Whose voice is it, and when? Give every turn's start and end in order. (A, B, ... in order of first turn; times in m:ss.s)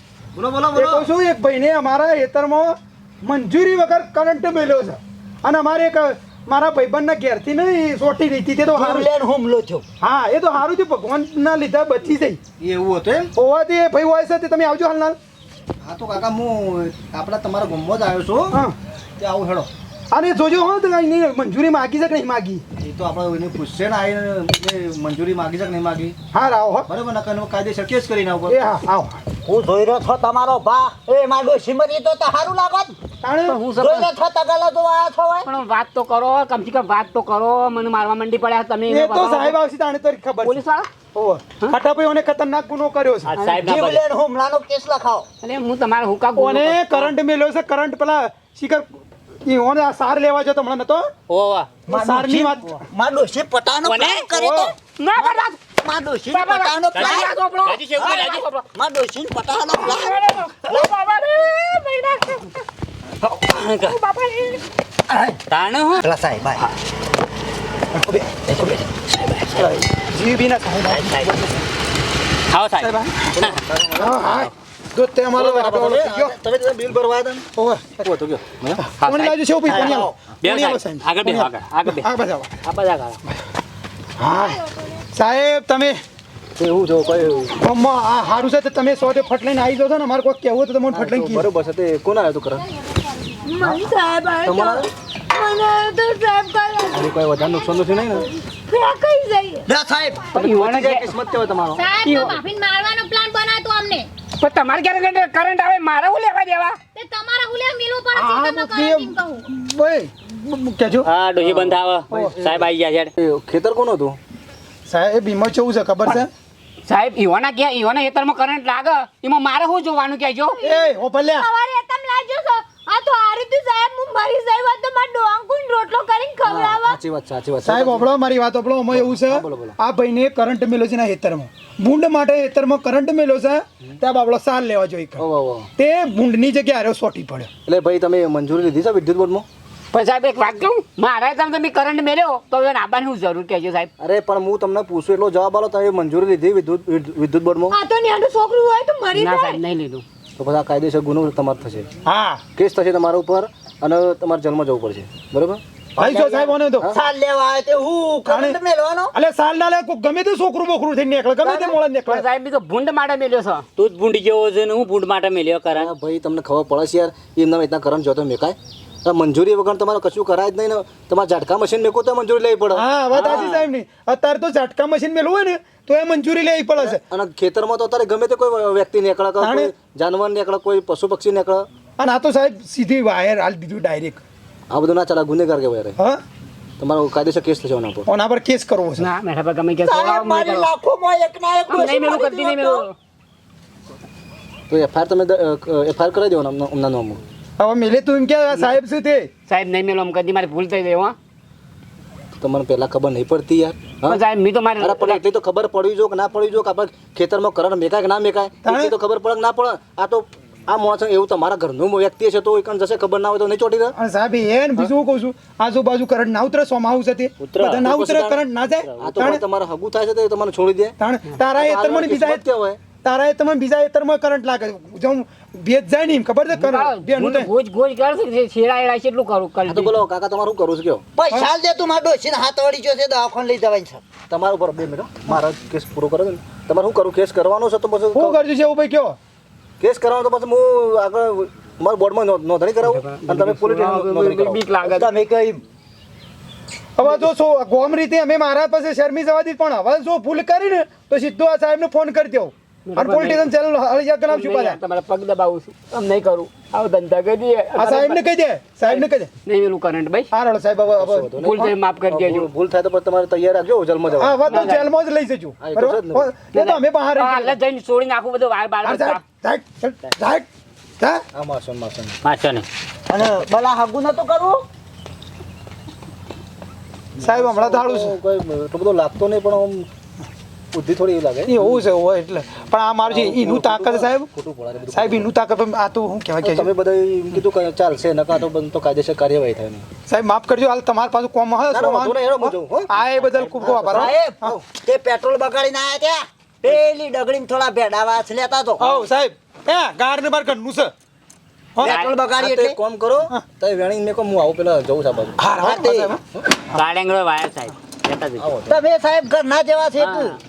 0:00.3-0:01.1 A
0:00.7-0:09.1 B
0:08.7-0:09.8 C
0:10.0-0:12.4 B
0:12.6-0:13.3 A
0:13.3-0:15.2 B
0:15.8-0:18.6 A
0:19.2-0:19.7 A
0:20.1-0:22.6 B
0:22.8-0:26.2 A
0:26.3-0:26.9 B
0:26.9-0:28.6 A
0:28.5-0:29.2 B
0:29.4-0:32.9 C
0:33.2-0:33.6 B
0:33.5-0:34.1 D
0:33.8-0:35.5 C
0:35.4-0:39.6 D
0:38.9-0:43.3 B
0:40.4-0:40.9 D
0:43.2-0:44.0 E
0:43.4-0:43.7 D
0:43.6-0:45.2 C
0:45.4-0:47.1 D
0:46.4-0:48.9 B
0:49.4-0:51.1 B
0:51.3-0:51.7 E
0:51.9-0:52.8 B
0:51.9-0:54.7 C
0:53.9-0:54.2 D
0:54.3-0:54.7 B
0:55.0-0:55.6 D
0:55.8-0:57.4 C
0:56.3-0:58.6 D
0:56.9-0:58.4 E
0:58.0-1:00.9 C
0:59.7-1:02.6 D
1:03.2-1:04.0 E
1:03.8-1:04.6 D
1:05.1-1:05.4 C
1:05.5-1:06.0 E
1:06.0-1:06.6 C
1:07.9-1:08.8 B
1:09.2-1:09.8 E
1:09.5-1:11.6 B
1:10.9-1:11.3 E
1:12.5-1:14.5 E
1:12.8-1:16.4 B
1:13.5-1:14.2 A
1:15.3-1:17.5 A
1:17.6-1:18.1 B
1:18.0-1:18.8 A
1:18.8-1:22.6 B
1:19.0-1:22.1 E
1:19.7-1:20.1 C
1:22.6-1:23.2 E
1:24.2-1:26.0 B
1:26.6-1:27.6 A
1:27.5-1:31.5 B
1:30.9-1:32.6 A
1:33.4-1:37.1 F
1:34.4-1:34.9 A
1:36.9-1:38.3 A
1:37.8-1:39.7 F
1:39.6-1:40.3 C
1:40.3-1:41.2 D
1:40.3-1:42.2 A
1:41.7-1:44.1 G
1:42.0-1:42.4 D
1:44.4-1:46.8 D
1:46.9-1:49.4 G
1:48.1-1:51.1 B
1:51.0-1:53.1 E
1:51.4-1:54.2 A
1:54.9-1:56.3 B
1:56.8-2:00.6 D
2:00.6-2:07.0 F
2:00.6-2:01.5 B
2:06.4-2:08.1 A
2:07.6-2:15.2 B
2:08.9-2:09.8 A
2:15.2-2:15.7 A
2:15.8-2:17.5 B
2:17.6-2:19.4 A
2:19.9-2:23.9 D
2:24.0-2:27.7 A
2:27.7-2:29.6 F
2:29.1-2:30.0 D
2:30.4-2:31.9 A
2:32.0-2:32.4 B
2:32.6-2:36.1 A
2:36.0-2:36.9 B
2:36.1-2:36.4 D
2:36.9-2:39.1 C
2:38.3-2:38.6 B
2:39.1-2:42.2 B
2:41.4-2:43.6 D
2:43.8-2:45.9 E
2:45.7-2:53.4 A
2:52.7-2:57.0 B
2:53.1-2:53.7 E
2:53.3-2:53.5 D
2:56.8-3:01.7 A
2:59.4-2:59.7 B
3:02.0-3:04.2 B
3:04.7-3:06.0 A
3:06.0-3:06.2 B
3:06.8-3:08.1 A
3:08.0-3:09.1 B
3:09.0-3:10.7 D
3:09.8-3:12.8 C
3:11.7-3:12.9 D
3:14.7-3:17.2 A
3:17.6-3:19.3 B
3:19.5-3:21.1 D
3:22.4-3:24.2 A
3:24.1-3:25.2 D
3:24.8-3:34.0 A
3:28.6-3:28.9 B
3:33.9-3:39.4 B
3:37.4-3:40.9 A
3:41.0-3:42.4 B
3:41.5-3:42.8 A
3:43.0-3:47.5 B
3:46.6-3:50.0 D
3:49.6-3:51.1 A
3:51.2-3:54.0 C
3:54.3-3:58.4 A
3:58.1-3:59.2 B
3:59.8-4:04.7 A
4:02.8-4:05.1 D
4:04.8-4:05.6 C
4:07.0-4:14.8 B
4:12.9-4:13.5 D
4:14.3-4:18.2 D
4:17.8-4:19.3 B
4:18.9-4:20.3 D
4:20.3-4:21.7 B
4:21.0-4:24.4 A
4:21.4-4:22.5 D
4:24.1-4:27.6 B
4:24.4-4:24.9 D
4:25.6-4:26.3 A
4:26.5-4:29.2 D
4:28.8-4:30.5 B
4:31.3-4:32.2 A
4:32.2-4:32.6 E
4:33.1-4:34.6 C
4:37.2-4:38.2 B
4:37.2-4:39.9 A
4:40.7-4:41.8 A
4:41.4-4:44.3 B
4:43.0-4:45.3 A
4:44.9-4:46.7 B
4:46.4-4:49.8 A
4:50.1-4:54.5 B
4:51.7-4:54.6 A
4:53.9-4:59.0 C
4:58.8-5:00.9 B
5:01.8-5:02.0 B
5:01.8-5:02.8 C
5:01.8-5:05.4 A
5:05.4-5:06.2 B
5:05.6-5:06.1 C
5:06.7-5:08.4 E
5:08.4-5:08.7 A
5:08.7-5:10.4 C
5:10.0-5:10.4 E